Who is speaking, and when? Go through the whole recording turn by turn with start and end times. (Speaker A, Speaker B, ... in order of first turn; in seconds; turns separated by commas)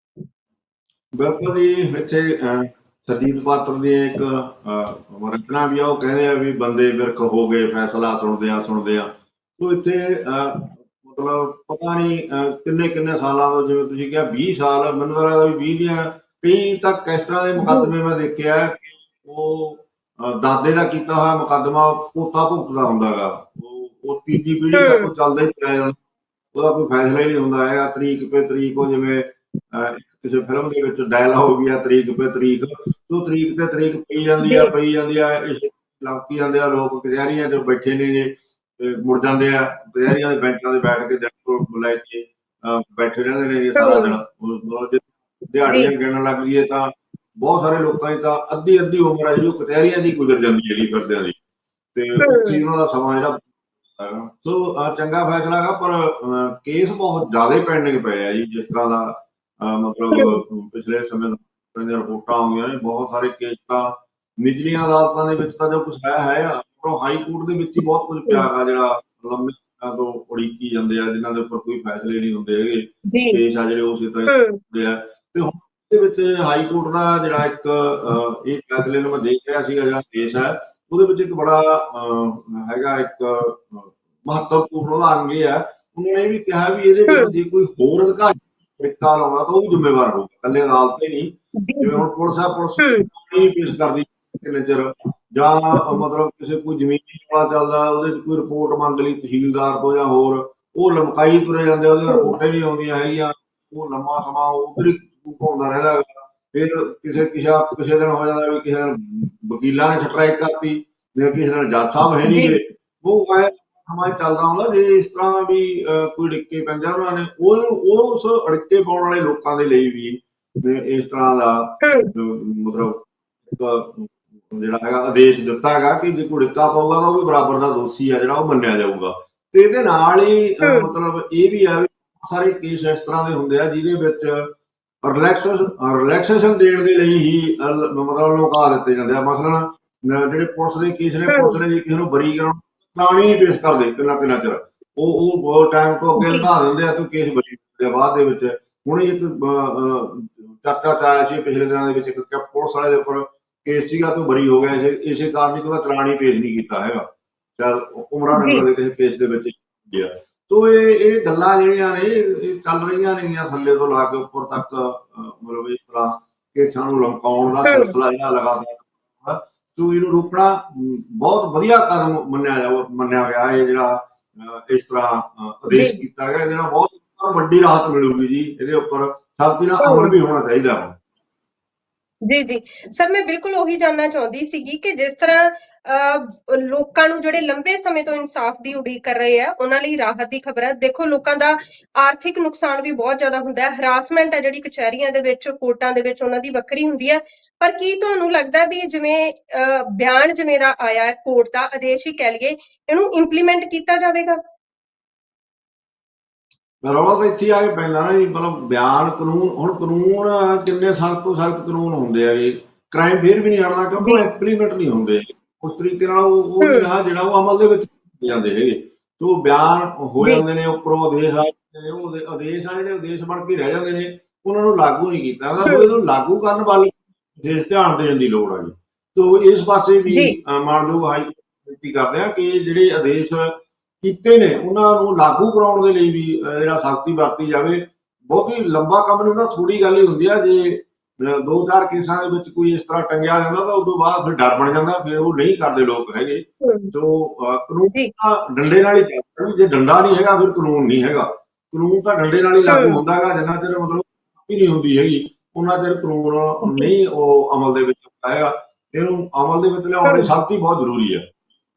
Speaker A: 1.1-26.0, Speaker B: 17.6-17.9, Speaker B: 24.7-25.1, Speaker A: 26.5-51.4, Speaker B: 34.4-34.7, Speaker B: 43.8-44.1, Speaker A: 51.9-134.5, Speaker B: 52.2-52.6, Speaker B: 60.1-60.4, Speaker B: 73.1-73.4, Speaker B: 74.3-74.6, Speaker B: 91.6-92.0, Speaker B: 92.8-93.1, Speaker B: 102.1-102.4, Speaker B: 112.2-112.6, Speaker B: 121.8-122.1, Speaker B: 130.6-130.9, Speaker A: 135.0-157.1, Speaker B: 141.3-141.6, Speaker B: 146.2-146.5, Speaker A: 157.6-180.9, Speaker B: 158.3-158.7, Speaker B: 167.7-167.9, Speaker B: 175.7-176.0, Speaker B: 179.8-180.1, Speaker B: 182.3-204.4, Speaker A: 206.8-261.2, Speaker B: 216.6-216.9, Speaker B: 225.6-225.9, Speaker B: 230.1-230.3, Speaker B: 246.6-246.9, Speaker B: 252.7-253.0, Speaker B: 256.6-256.9, Speaker B: 260.0-260.3